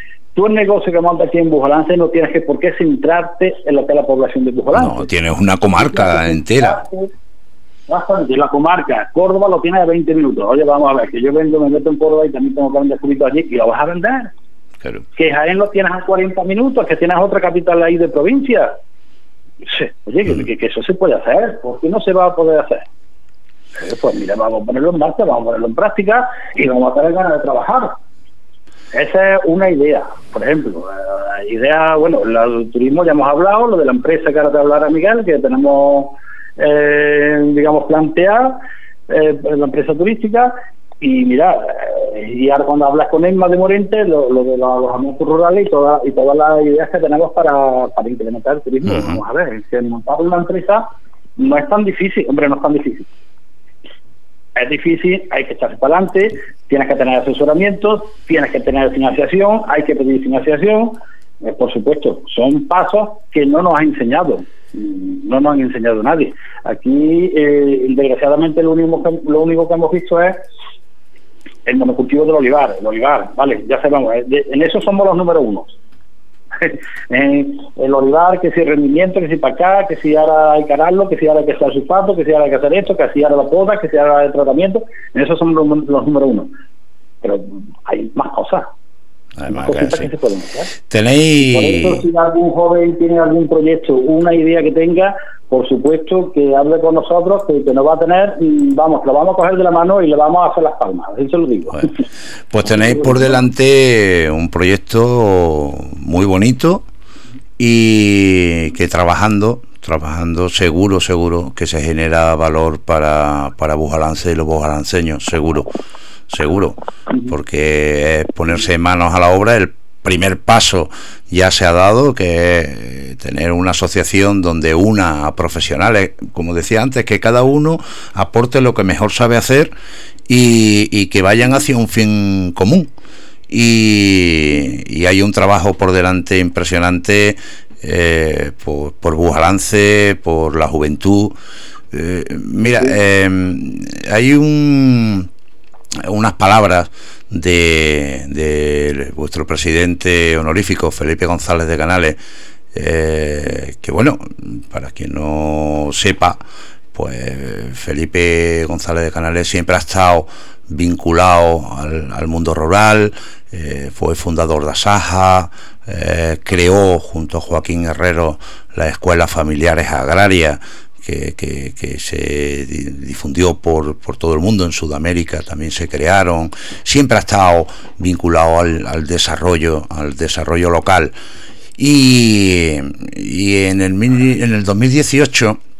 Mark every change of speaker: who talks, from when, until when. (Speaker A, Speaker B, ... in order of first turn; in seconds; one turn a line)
Speaker A: 0.3-5.1
Speaker B: 4.7-6.8
Speaker A: 5.8-7.1
Speaker A: 7.9-14.3
Speaker B: 14.8-15.1
Speaker A: 15.2-18.7
Speaker A: 19.6-22.9
Speaker A: 23.8-27.9
Speaker A: 28.9-53.1
Speaker B: 48.9-49.2
Speaker A: 54.5-70.4
Speaker A: 71.7-75.8
Speaker A: 76.6-86.5
Speaker A: 87.2-88.7
Speaker B: 89.4-90.1
Speaker A: 89.5-90.7
Speaker B: 90.9-92.0
Speaker A: 91.4-102.0
Speaker B: 102.5-106.8
Speaker A: 103.0-103.3
Speaker B: 107.6-115.7
Speaker B: 116.3-129.7
Speaker B: 130.3-132.9
Speaker B: 133.5-141.3
Speaker B: 141.9-145.3
Speaker B: 146.0-152.2
Speaker B: 152.7-156.4
Speaker B: 156.9-181.1
Speaker B: 181.8-185.6